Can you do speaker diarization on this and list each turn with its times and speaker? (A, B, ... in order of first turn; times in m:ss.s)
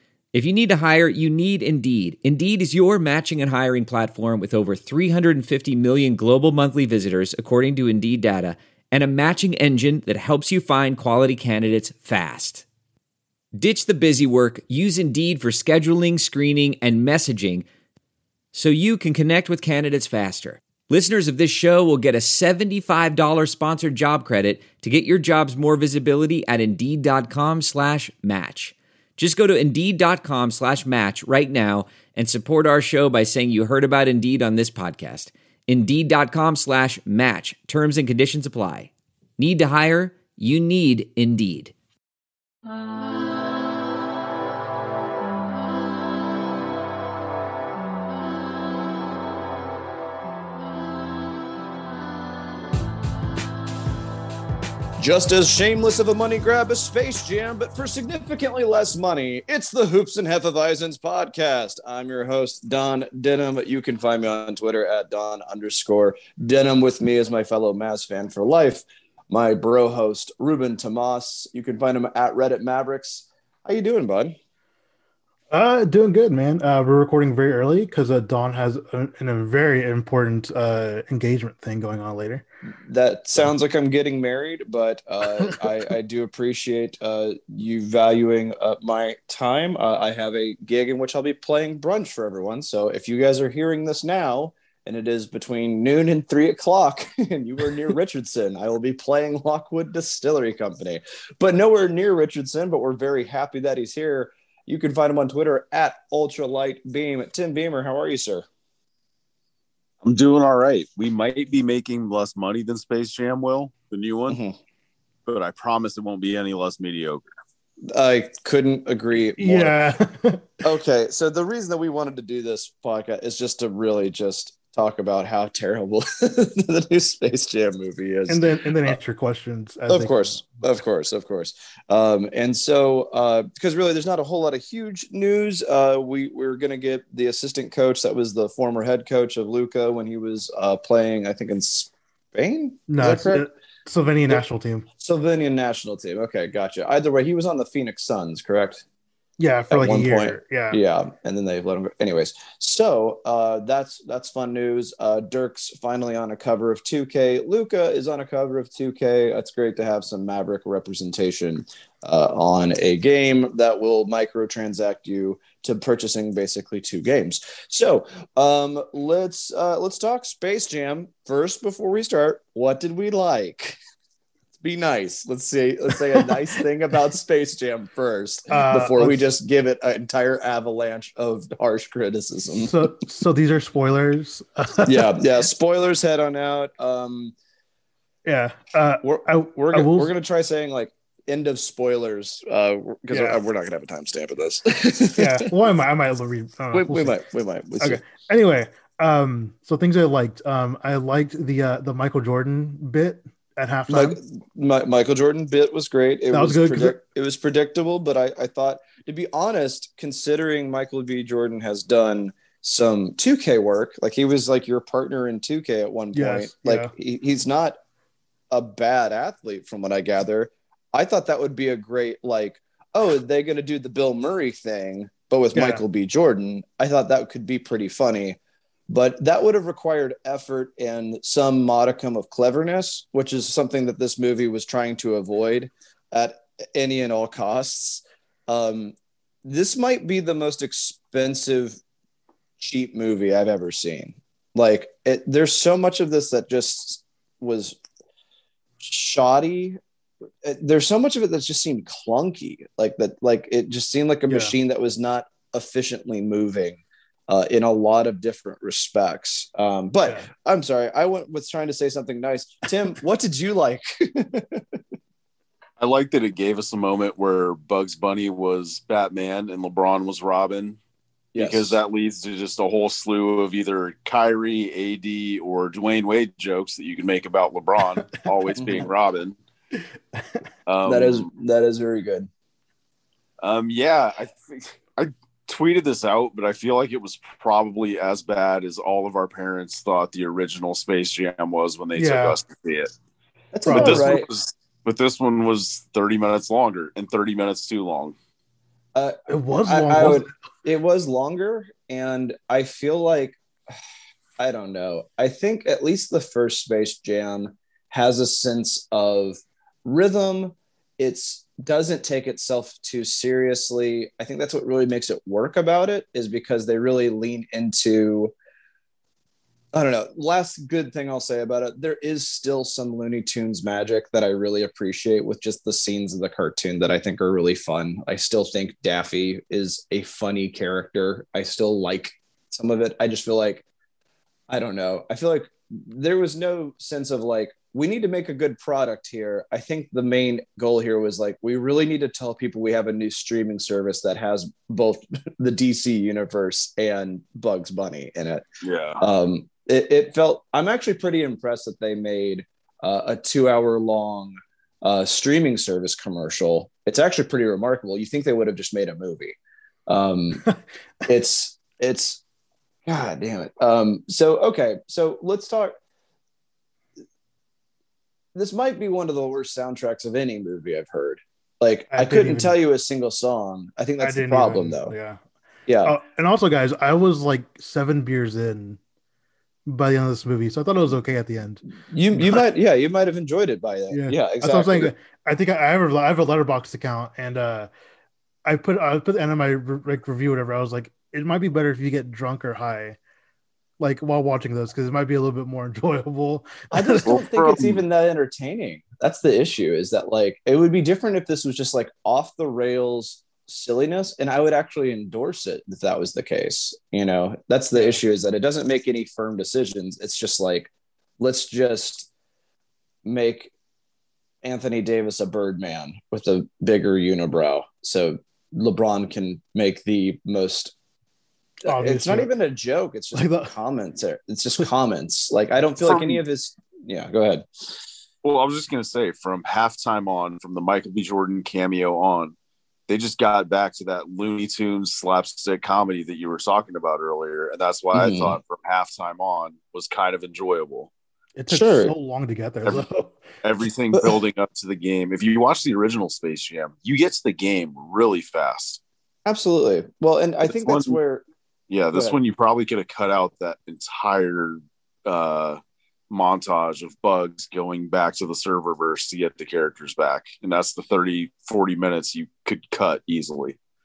0:00.3-0:12.7 A
0:13.6-0:17.6 A
0:18.5-0:41.7 A
0:55.0-1:14.4 B
1:15.5-1:22.4 C
1:22.8-1:48.5 B
1:50.0-1:54.4 D
1:54.3-1:54.6 B
1:55.3-1:57.3 D
1:57.9-1:59.8 B
1:59.4-2:00.5 C
2:00.6-2:09.0 B
2:08.3-2:10.4 C
2:09.9-2:23.4 B
2:22.9-2:24.9 C
2:25.0-2:28.8 B
2:29.4-2:30.8 C
2:29.7-2:53.8 B
2:54.6-3:02.9 B
2:58.5-2:59.2 C
3:02.6-3:05.1 C
3:04.9-3:07.4 B
3:08.3-3:10.1 C
3:09.0-3:15.5 B
3:13.1-3:13.4 C
3:15.2-3:17.2 C
3:16.7-3:18.0 B
3:17.8-3:24.2 C
3:23.9-3:37.8 B
3:26.3-3:27.0 C
3:36.1-3:36.9 C
3:38.5-3:48.4 B
3:45.6-3:45.8 C
3:48.9-4:01.8 B
4:02.6-4:07.8 B
4:08.8-4:09.8 B
4:10.4-4:24.8 B
4:14.3-4:14.5 C
4:25.8-4:30.8 D
4:31.3-4:31.8 B
4:31.4-4:39.4 D
4:40.7-4:41.3 D
4:40.8-4:42.3 B
4:43.4-4:52.9 D
4:52.0-4:52.4 C
4:53.5-4:54.3 B
4:53.7-4:54.0 C
4:53.7-4:58.2 D
4:59.0-5:03.4 B
4:59.3-5:00.3 C
5:04.4-5:18.3 B
5:19.7-5:33.6 B
5:34.5-5:48.4 B
5:48.6-5:49.0 D
5:49.0-5:59.4 B
5:59.9-6:00.4 B
6:01.0-6:02.2 B
6:02.9-6:05.8 B
6:08.4-6:14.9 B
6:11.9-6:12.6 C
6:14.0-6:15.2 C
6:15.7-6:16.0 B
6:15.8-6:18.8 C
6:19.7-6:22.4 C
6:21.8-6:24.9 B
6:23.9-6:27.7 C
6:28.5-6:33.0 C
6:33.8-6:37.2 C
6:36.7-6:52.1 B
6:37.1-6:37.8 D
6:47.8-6:48.0 C
6:53.0-6:53.5 B
6:54.4-7:00.7 B
7:01.6-7:02.3 C
7:01.7-7:07.5 B
7:03.1-7:03.5 C
7:05.8-7:06.2 D
7:08.2-7:12.4 D
7:12.9-7:20.9 D
7:17.9-7:18.4 B
7:21.4-7:23.2 C
7:21.5-7:21.9 B
7:23.4-7:28.8 D
7:29.2-7:31.2 B
7:30.4-7:31.0 D
7:31.7-7:43.6 D